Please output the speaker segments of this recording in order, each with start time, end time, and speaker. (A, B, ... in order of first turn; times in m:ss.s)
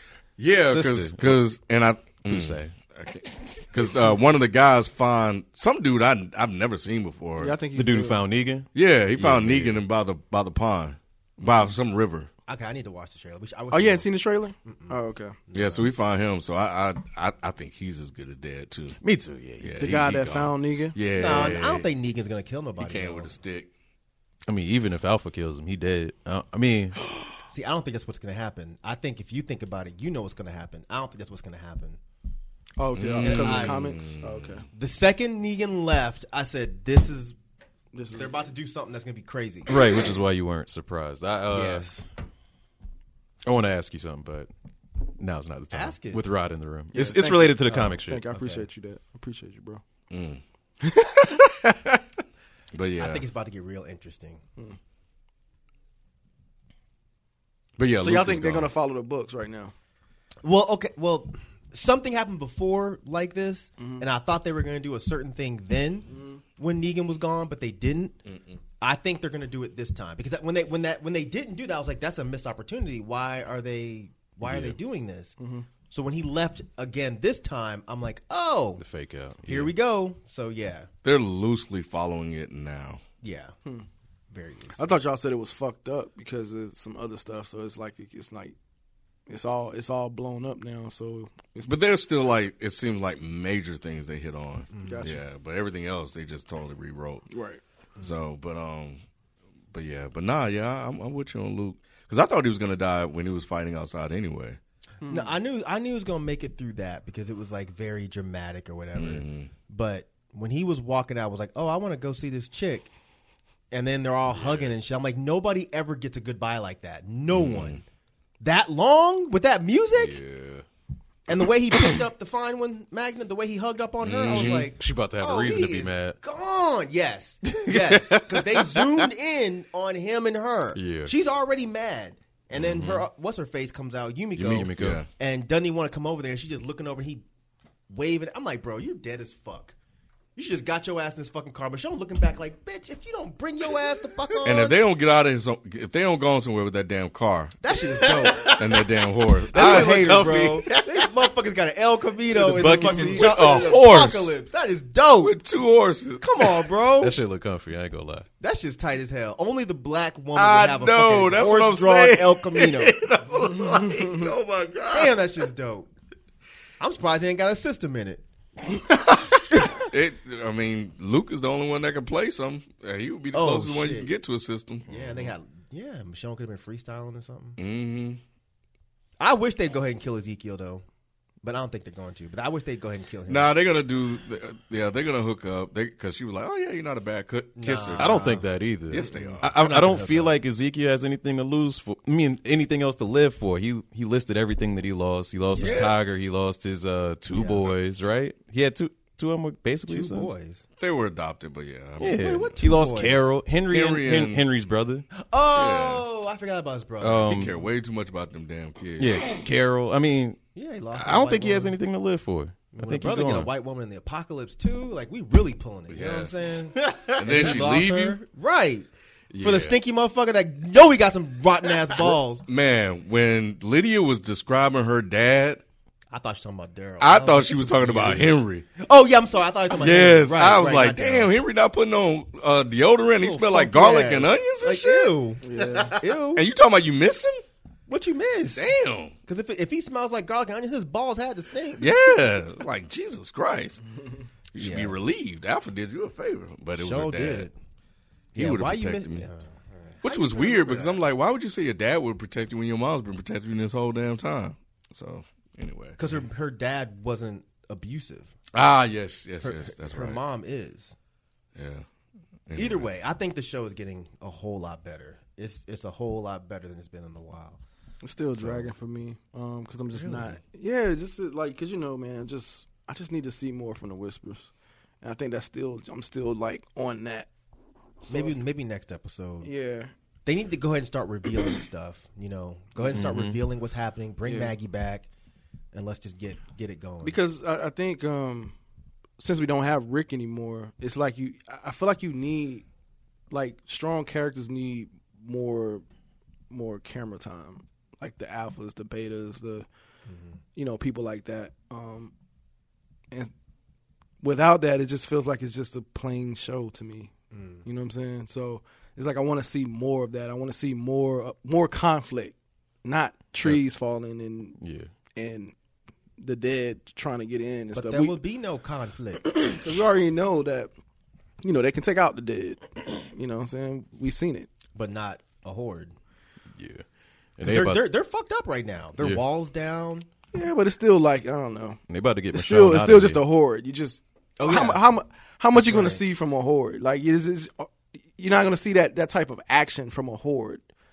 0:00.4-0:07.6 A
0:00.6-0:01.4 B
0:02.2-0:02.7 B
0:07.4-0:08.2 C
0:07.7-0:09.8 B
0:08.7-0:12.3 A
0:12.5-0:14.0 D
0:13.7-0:15.3 C
0:14.6-0:15.0 D
0:15.5-0:15.9 D
0:15.5-0:19.0 A
0:19.0-0:19.8 B
0:19.6-0:21.9 A
0:19.8-0:21.0 C
0:21.1-0:23.3 D
0:22.8-0:23.7 A
0:24.5-0:27.0 B
0:27.5-0:32.0 D
0:32.8-0:34.6 C
0:32.9-0:34.6 A
0:33.1-0:34.0 D
0:34.7-0:37.4 D
0:37.9-0:38.3 C
0:38.1-0:39.8 D
0:39.7-0:41.9 B
0:41.5-0:42.0 D
0:43.4-0:44.5 B
0:45.2-0:48.3 B
0:45.7-0:46.3 D
0:46.9-0:49.8 C
0:47.6-0:48.6 D
0:50.1-0:50.4 A
0:50.8-0:52.0 C
0:52.7-0:53.2 A
0:53.0-0:54.4 D
0:57.8-0:58.7 A
0:58.0-0:59.7 C
1:00.4-1:08.2 D
1:03.8-1:04.0 C
1:06.1-1:06.4 C
1:08.8-1:15.3 D
1:14.4-1:14.8 B
1:15.4-1:15.7 C
1:15.9-1:18.8 D
1:18.8-1:19.8 B
1:19.4-1:20.9 D
1:21.0-1:23.0 A
1:23.2-1:23.5 D
1:24.3-1:24.8 D
1:24.8-1:28.5 C
1:29.3-1:31.7 C
1:31.6-1:37.2 A
1:34.7-1:35.1 D
1:34.8-1:35.2 C
1:37.3-1:37.6 C
1:38.0-1:39.0 A
1:39.7-1:44.6 A
1:45.0-1:45.3 C
1:45.0-1:52.9 D
1:48.9-1:49.5 A
1:53.7-1:57.8 D
1:54.3-1:54.7 A
1:57.3-1:57.8 A
1:58.4-2:00.2 D
1:59.9-2:00.6 A
2:01.3-2:17.2 D
2:04.0-2:04.7 A
2:04.3-2:06.2 B
2:07.6-2:09.1 B
2:10.7-2:11.1 B
2:12.5-2:13.0 B
2:14.4-2:15.1 A
2:14.4-2:15.0 B
2:17.9-2:19.7 D
2:20.3-2:24.7 D
2:24.4-2:27.5 A
2:27.6-2:28.6 D
2:28.0-2:28.7 B
2:28.4-2:30.4 A
2:29.5-2:35.3 D
2:29.5-2:31.1 B
2:32.3-2:33.9 B
2:32.6-2:34.4 A
2:35.2-2:36.7 A
2:36.2-2:37.2 D
2:37.0-2:38.3 B
2:38.4-2:43.0 D
2:40.3-2:45.2 A
2:44.9-2:45.9 D
2:46.8-2:48.2 D
2:49.5-2:49.8 D
2:49.8-2:55.3 A
2:53.3-2:54.1 D
2:54.9-2:57.6 D
2:57.6-2:58.2 A
2:59.2-3:00.8 D
3:01.4-3:03.6 D
3:03.3-3:08.3 A
3:07.6-3:08.5 D
3:08.0-3:20.3 B
3:08.9-3:09.5 A
3:09.0-3:10.4 D
3:15.5-3:15.9 D
3:15.6-3:16.0 A
3:17.3-3:17.7 D
3:19.9-3:20.6 D
3:20.8-3:22.6 A
3:22.0-3:25.0 B
3:22.1-3:23.3 D
3:23.7-3:24.4 A
3:25.2-3:27.5 D
3:25.5-3:26.0 A
3:27.0-3:27.6 B
3:27.3-3:29.2 A
3:29.0-3:30.4 B
3:30.5-3:31.8 D
3:30.9-3:33.5 B
3:32.7-3:38.9 D
3:35.9-3:36.3 A
3:36.8-3:37.6 B
3:37.1-3:38.2 A
3:39.3-3:39.8 B
3:39.4-3:42.4 D
3:42.0-3:45.6 A
3:46.1-3:51.3 D
3:47.0-3:48.7 A
3:49.7-3:55.2 A
3:53.2-3:56.4 D
3:55.4-3:56.0 C
3:56.3-3:57.4 A
3:57.9-3:58.7 D
3:58.5-3:59.1 A
3:59.2-4:01.9 D
4:01.8-4:03.8 A
4:04.5-4:07.5 A
4:04.6-4:04.9 D
4:06.8-4:07.5 D
4:08.3-4:09.3 A
4:08.3-4:11.0 D
4:10.0-4:16.2 A
4:16.0-4:18.3 D
4:18.5-4:20.2 A
4:19.4-4:20.9 D
4:21.5-4:21.8 A
4:22.5-4:22.9 A
4:22.5-4:27.6 D
4:28.0-4:34.5 C
4:28.4-4:28.7 D
4:29.9-4:30.4 A
4:35.0-4:37.3 C
4:38.0-4:38.4 C
4:38.1-4:39.5 D
4:39.4-4:39.9 C
4:40.2-4:45.1 D
4:42.9-4:43.4 B
4:44.2-4:44.5 C
4:45.7-4:47.2 D
4:47.0-4:48.5 C
4:49.2-4:52.6 C
4:53.3-4:55.8 C
4:56.5-4:59.7 C
5:00.1-5:00.4 D
5:00.6-5:02.1 C
5:04.2-5:07.1 C
5:07.3-5:07.6 D
5:07.6-5:14.6 C
5:14.6-5:14.9 B
5:15.2-5:15.5 C
5:16.2-5:18.2 C
5:17.7-5:19.5 D
5:19.2-5:20.7 C
5:21.4-5:24.5 C
5:24.7-5:25.9 D
5:26.5-5:26.8 B
5:27.4-5:27.8 B
5:27.4-5:30.1 D
5:30.3-5:31.8 C
5:31.9-5:33.2 B
5:32.3-5:40.6 C
5:34.4-5:34.9 D
5:35.5-5:36.0 D